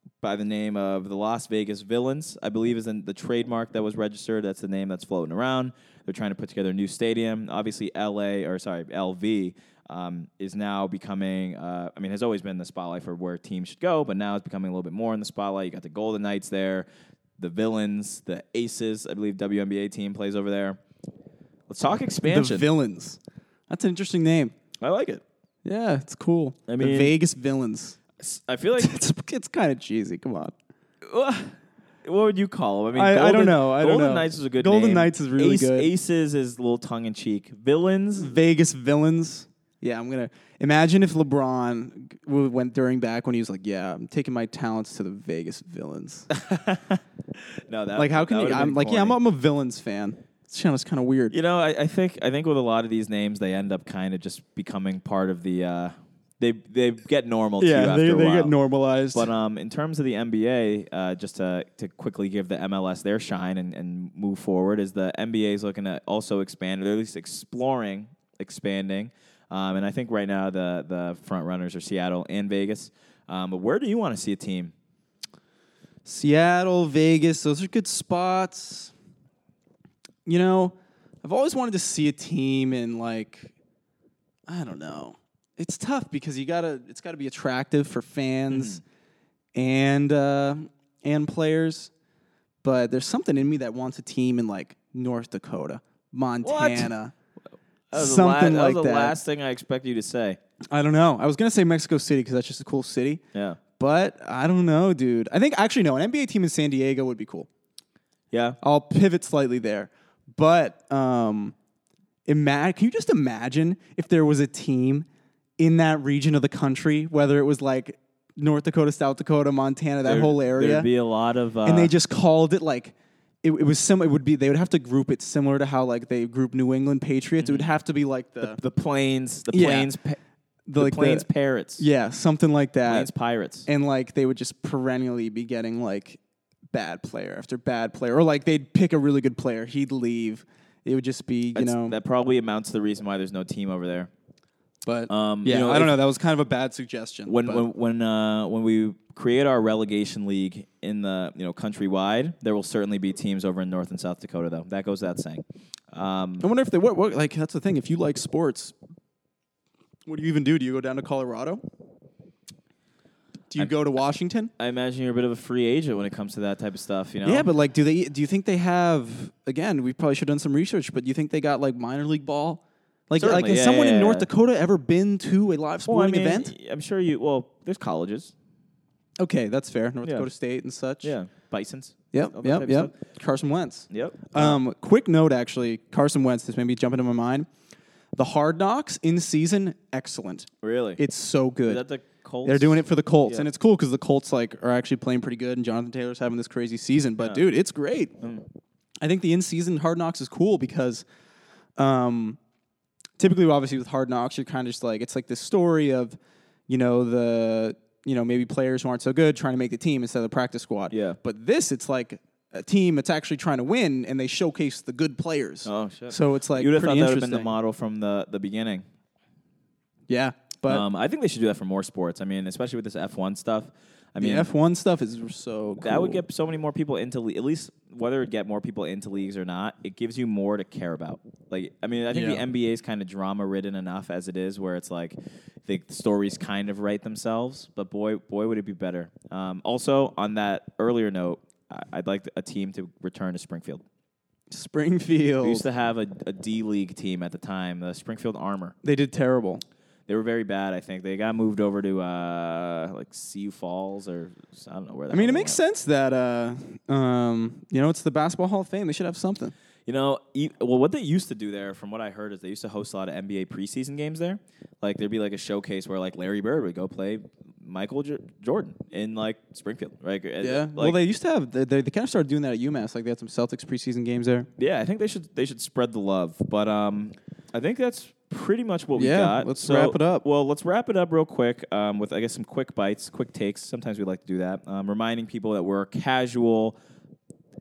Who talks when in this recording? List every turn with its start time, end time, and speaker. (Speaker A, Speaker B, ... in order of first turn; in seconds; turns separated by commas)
Speaker A: 0.2-16.9, Speaker A: 17.4-20.8, Speaker A: 21.7-22.7, Speaker B: 22.3-24.5, Speaker A: 24.8-25.2, Speaker B: 25.6-28.0, Speaker A: 26.7-27.1, Speaker A: 28.2-28.9, Speaker B: 28.8-30.5, Speaker A: 31.1-38.4, Speaker B: 32.9-35.9, Speaker B: 38.2-46.3, Speaker A: 46.3-47.0, Speaker A: 47.6-49.2, Speaker B: 48.0-51.4, Speaker A: 51.3-58.5, Speaker B: 57.6-59.3, Speaker A: 59.1-74.7, Speaker B: 76.1-78.9, Speaker B: 80.3-83.5, Speaker B: 84.5-88.8, Speaker A: 88.5-88.8, Speaker B: 89.6-91.9, Speaker B: 92.6-97.1, Speaker A: 96.4-96.9, Speaker A: 97.9-100.4, Speaker B: 97.9-99.2, Speaker B: 100.7-103.2, Speaker A: 103.3-103.6, Speaker B: 103.8-107.5, Speaker A: 108.3-108.6, Speaker B: 108.6-111.5, Speaker B: 112.3-115.1, Speaker B: 115.6-120.9, Speaker A: 120.0-121.9, Speaker B: 121.7-128.6, Speaker A: 127.4-127.7, Speaker A: 128.4-130.2, Speaker B: 129.5-129.9, Speaker B: 130.7-131.3, Speaker A: 130.8-131.9, Speaker B: 131.8-133.1, Speaker A: 132.9-133.7, Speaker B: 133.7-136.2, Speaker B: 136.7-142.0, Speaker A: 141.6-144.1, Speaker B: 144.9-147.7, Speaker A: 145.1-146.0, Speaker A: 147.3-156.4, Speaker B: 156.4-158.7, Speaker B: 160.1-161.6, Speaker B: 163.5-164.5, Speaker A: 164.6-167.5, Speaker B: 167.2-176.5, Speaker A: 173.2-174.3, Speaker A: 175.9-178.3, Speaker B: 179.2-181.2, Speaker A: 180.0-180.3, Speaker A: 181.0-182.9, Speaker B: 182.1-187.5, Speaker A: 183.9-184.6, Speaker B: 188.2-191.8, Speaker A: 190.6-191.0, Speaker A: 191.7-193.5, Speaker B: 192.4-198.1, Speaker A: 198.2-198.4, Speaker B: 199.0-201.1, Speaker B: 201.8-202.4, Speaker B: 203.2-206.2, Speaker B: 206.7-217.5, Speaker A: 210.9-211.2, Speaker A: 215.7-218.8, Speaker B: 220.1-220.8, Speaker A: 220.7-224.5, Speaker B: 224.2-226.2, Speaker A: 225.8-243.8, Speaker B: 232.1-232.4, Speaker B: 244.5-245.7, Speaker A: 245.4-248.8, Speaker B: 248.8-249.6, Speaker A: 250.1-255.6, Speaker B: 255.1-259.5, Speaker A: 259.9-271.0, Speaker B: 270.4-274.5, Speaker A: 274.6-286.8, Speaker B: 279.0-280.2